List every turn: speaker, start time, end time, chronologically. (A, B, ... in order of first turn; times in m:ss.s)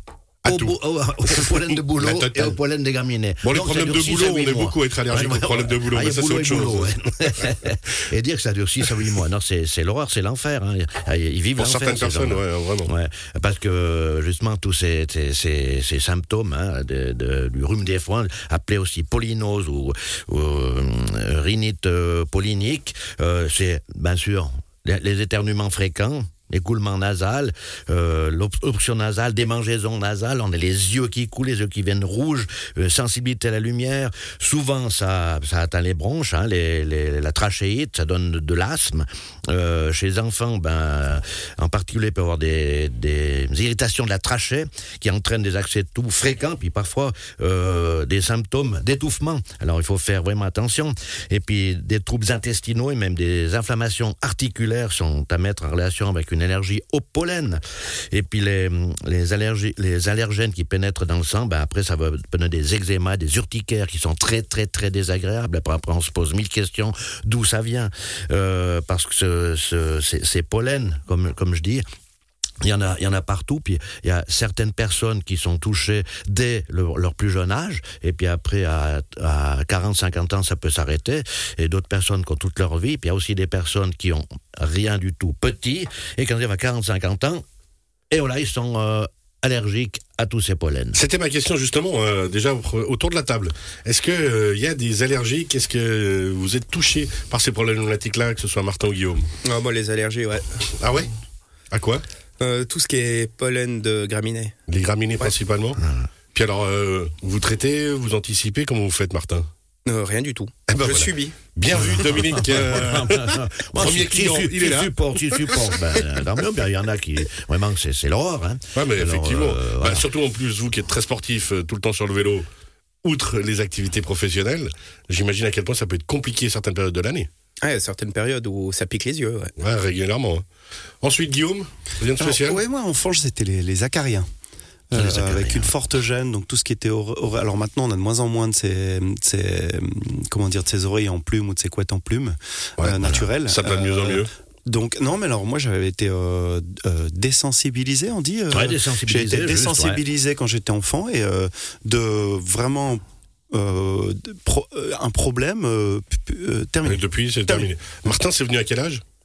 0:00.4-0:00.7 A
0:00.4-1:11.8 B
0:01.4-0:02.6 A
0:03.4-0:06.9 A
0:11.6-0:12.9 A
1:12.6-1:27.4 B
1:28.1-1:31.0 B
1:30.9-1:39.3 A
1:39.4-1:40.7 C
1:40.8-1:41.1 A
1:41.7-1:42.0 A
1:42.4-1:44.5 C
1:44.7-1:45.8 A
1:45.8-1:46.0 B
1:46.3-1:49.5 A
1:49.8-1:51.9 C
1:50.7-1:55.7 A
1:52.2-2:00.1 B
1:58.7-2:02.4 A
2:03.0-2:07.3 A
2:07.6-2:09.5 C
2:09.6-2:10.4 A
2:11.0-2:12.6 A
2:12.2-2:14.3 D
2:14.9-2:37.7 D
2:14.9-2:15.7 B
2:22.8-2:24.3 A
2:23.0-2:23.3 B
2:28.5-2:30.0 B
2:36.8-2:39.0 A